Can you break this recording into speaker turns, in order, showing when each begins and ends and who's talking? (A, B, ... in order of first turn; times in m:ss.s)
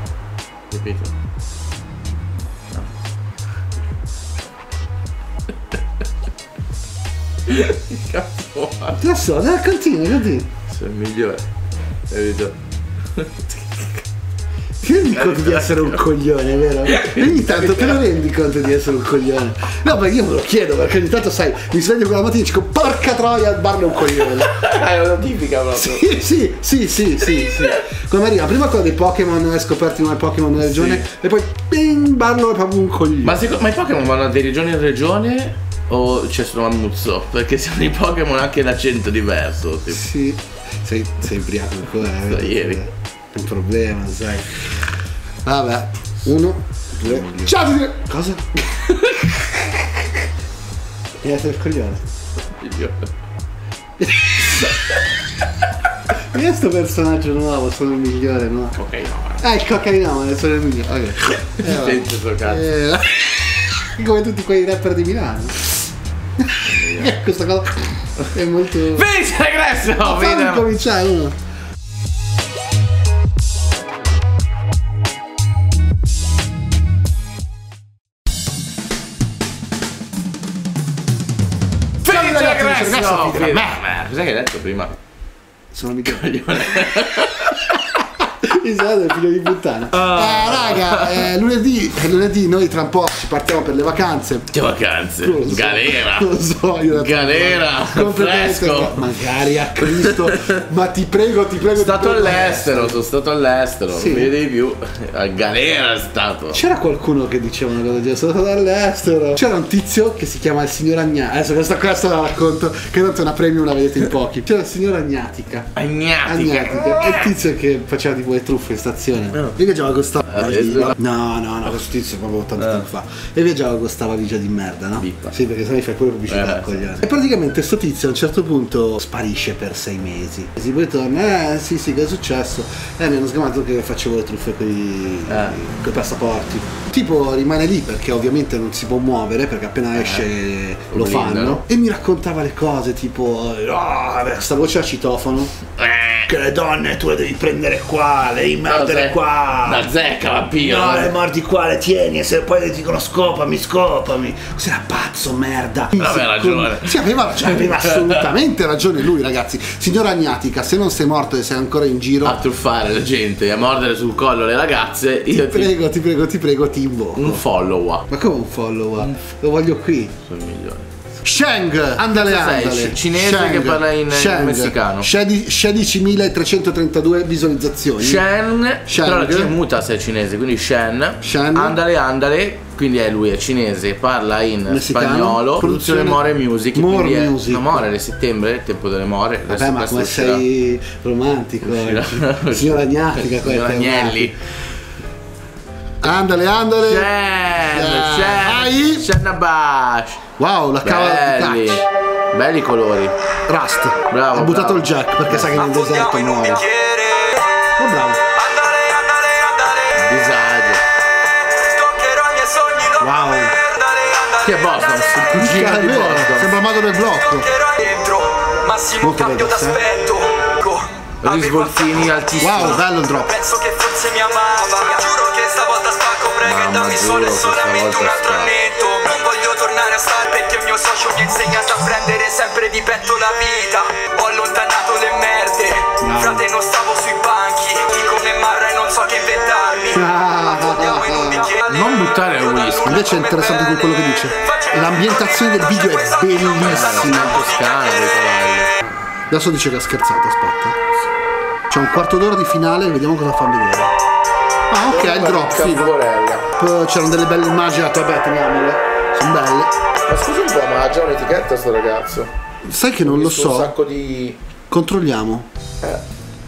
0:00.7-0:01.1 A
0:07.4-0:09.0 A
0:09.0-0:10.5 B
0:10.7-0:11.4 A
0:12.1-0:12.5 A
0:13.2-0:13.9 A
0:14.8-0:24.5 B
0:15.1-0:16.0 A
0:16.8-0:18.0 A
0:24.1-0:26.1 A
0:25.7-0:33.4 B
0:27.4-0:27.8 A
0:30.6-0:31.0 A
0:33.2-0:40.0 A
0:39.9-0:44.8 B
0:42.1-0:42.8 A
0:45.4-0:49.8 B
0:47.0-0:47.5 A
0:48.9-0:49.3 A
0:51.2-0:52.0 B
0:52.6-0:53.1 A
0:54.0-0:54.7 B
0:54.6-0:55.0 A
0:56.3-0:58.8 B
0:58.8-0:59.4 A
0:59.4-1:05.7 B
1:01.6-1:02.6 A
1:06.4-1:09.1 B
1:06.7-1:07.1 A
1:08.8-1:10.7 A
1:09.9-1:11.3 B
1:22.0-1:25.0 A
1:22.0-1:23.8 B
1:25.7-1:26.9 B
1:26.1-1:27.7 A
1:27.7-1:34.5 B
1:29.9-1:31.3 A
1:34.5-1:36.3 A
1:35.2-1:43.0 B
1:36.9-1:39.2 A
1:39.8-1:40.5 A
1:41.7-1:46.6 A
1:43.9-1:44.3 B
1:46.5-1:55.7 B
1:55.7-1:57.3 A
1:56.2-2:25.5 B
2:00.3-2:00.9 A
2:05.0-2:05.3 A
2:06.3-2:06.8 A
2:15.3-2:15.6 A
2:20.0-2:20.2 A
2:20.9-2:21.6 A
2:25.7-2:26.3 A
2:26.3-2:29.9 B
2:28.6-2:31.2 A
2:30.5-2:42.4 B
2:36.0-2:38.2 A
2:42.2-2:45.7 A
2:45.3-2:47.4 B
2:47.2-2:48.0 A
2:48.1-2:50.1 B
2:50.2-2:50.9 A
2:51.2-2:58.2 B
2:52.0-2:55.1 A
2:58.0-3:10.4 A
2:58.8-2:59.5 B
3:01.2-3:01.8 B
3:04.7-3:06.2 B
3:06.7-3:07.9 B
3:09.5-3:14.3 B
3:11.6-3:14.3 A
3:16.0-3:17.1 B
3:16.8-3:20.2 A
3:17.6-3:19.1 B
3:20.4-3:21.8 B
3:20.8-3:23.1 A
3:23.5-3:26.7 B
3:24.1-3:25.6 A
3:25.5-3:27.6 C
3:27.8-3:28.2 B
3:28.3-3:30.0 C
3:29.9-3:30.8 A
3:31.4-3:35.5 C
3:33.0-3:33.6 B
3:34.4-3:36.6 A
3:35.3-3:37.5 B
3:37.2-3:42.7 C
3:39.0-3:39.8 B
3:41.2-3:42.8 A
3:42.4-3:43.4 B
3:43.2-4:08.2 C
3:46.4-3:48.5 A
3:56.0-3:56.4 B
3:59.9-4:01.5 B
4:01.6-4:03.1 A
4:02.8-4:07.6 B
4:06.6-4:08.7 A
4:09.3-4:10.8 B
4:11.7-4:13.9 B
4:14.7-4:15.9 B
4:14.8-4:16.5 A
4:16.5-4:19.7 B
4:20.0-4:22.3 A
4:22.6-4:23.7 B
4:23.0-4:24.4 A
4:24.7-4:25.5 B